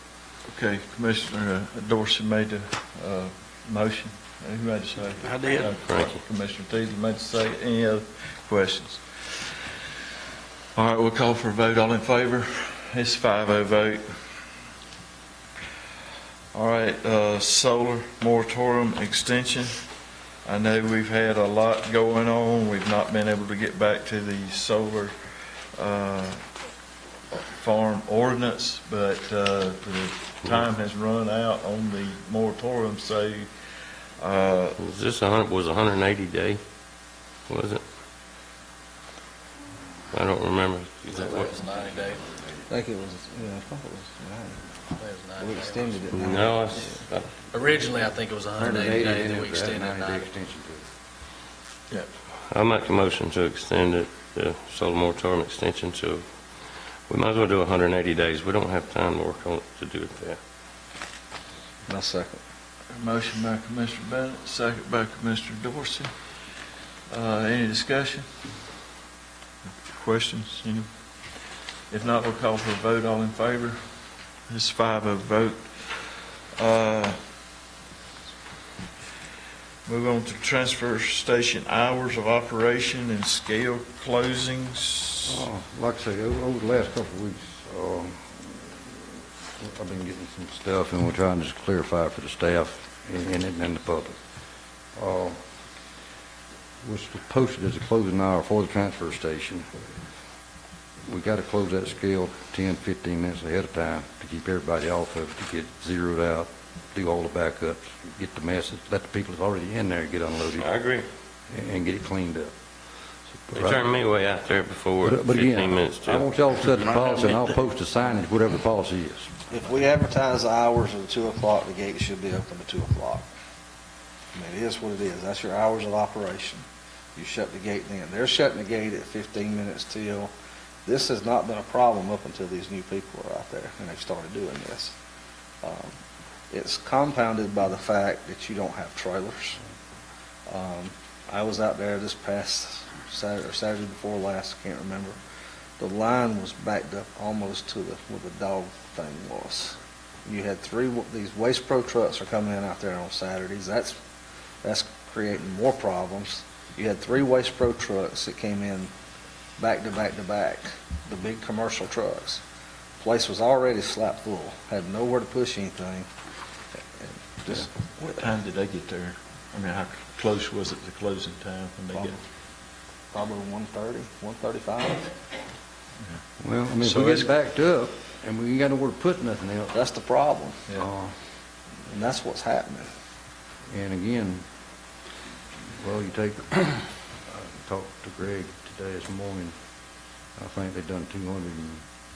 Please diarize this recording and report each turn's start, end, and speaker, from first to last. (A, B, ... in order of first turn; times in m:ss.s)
0:00.5-0:09.7 A
0:05.2-0:06.2 B
0:10.7-0:14.2 A
0:16.5-0:19.8 A
0:20.4-0:26.5 A
0:27.3-0:33.5 A
0:34.2-0:34.8 A
0:34.8-0:36.6 B
0:37.5-0:37.8 B
0:40.1-0:41.6 B
0:41.1-0:42.2 C
0:42.7-0:44.6 D
0:44.9-0:46.1 C
0:45.4-0:47.0 D
0:46.1-0:47.3 B
0:47.5-0:50.3 C
0:48.6-0:50.8 E
0:52.5-0:56.2 B
0:57.1-1:00.4 B
1:01.8-1:02.4 D
1:02.9-1:06.1 A
1:07.1-1:08.3 A
1:09.8-1:10.9 A
1:11.9-1:13.8 A
1:14.5-1:17.2 A
1:19.8-1:25.4 A
1:25.3-1:34.2 E
1:35.0-1:35.4 E
1:36.8-1:39.7 E
1:41.0-1:50.7 E
1:50.6-1:51.1 B
1:51.5-1:52.5 E
1:53.3-1:53.9 E
1:53.5-1:57.0 B
1:55.0-1:59.3 E
1:59.5-2:03.3 D
2:04.3-2:06.6 D
2:07.1-2:10.3 D
2:10.8-2:14.9 D
2:15.6-2:15.9 D
2:16.5-2:19.6 D
2:20.5-2:25.2 D
2:25.8-2:34.0 D
2:34.6-2:38.9 D
2:39.6-2:42.4 D
2:43.0-2:46.1 D
2:47.0-2:48.2 D
2:48.2-2:52.2 A
2:53.1-2:55.1 D
2:56.4-2:59.8 E
2:56.8-2:57.3 A
2:59.7-3:00.6 D
3:00.7-3:01.1 E
3:01.9-3:02.9 D
3:03.7-3:04.4 E
3:05.8-3:09.5 E
3:10.4-3:11.8 E